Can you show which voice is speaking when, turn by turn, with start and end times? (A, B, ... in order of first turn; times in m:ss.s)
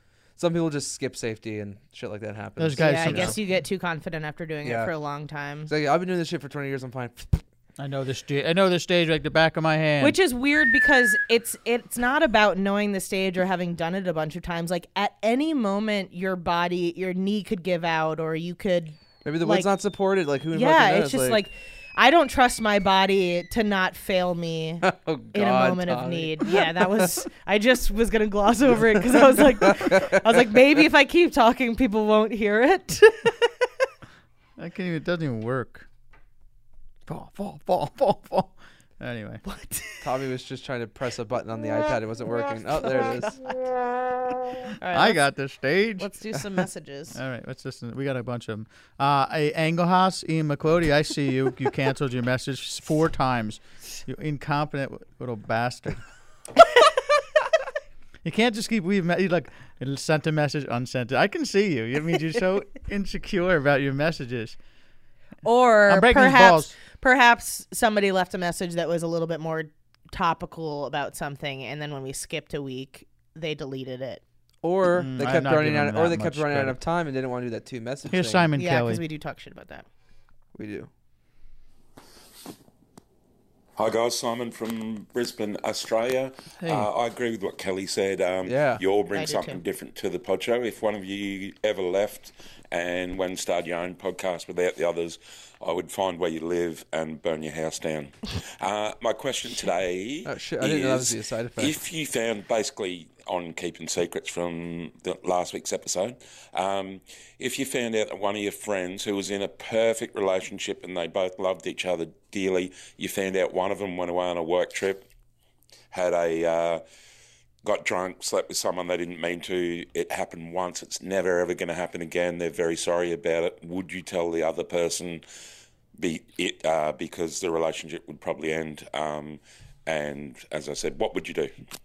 0:00.4-0:03.4 A
0:02.6-0:03.4 B
0:02.8-0:05.7 C
0:04.6-0:04.9 A
0:05.7-0:07.4 A
0:07.8-0:10.2 B
0:10.0-0:19.7 C
0:19.2-0:21.4 A
0:20.5-0:33.5 C
0:24.8-0:27.1 A
0:28.8-0:30.1 A
0:34.6-0:35.9 B
0:37.1-0:39.4 B
0:39.4-0:40.0 C
0:40.0-0:43.4 A
0:42.8-0:43.6 C
0:44.7-0:45.2 C
0:44.9-0:46.1 B
0:46.0-0:47.2 C
0:47.1-0:56.0 B
0:58.2-1:04.6 B
1:05.4-1:14.2 C
1:05.9-1:06.8 B
1:14.6-1:18.5 A
1:14.9-1:16.8 B
1:18.1-1:19.0 B
1:18.6-1:19.9 C
1:20.6-1:20.9 A
1:23.8-1:55.1 D
1:28.5-1:28.8 A
1:29.1-1:29.6 C
1:40.2-1:41.8 A
1:55.9-1:56.8 D
1:57.6-2:05.2 D
2:06.0-2:11.5 D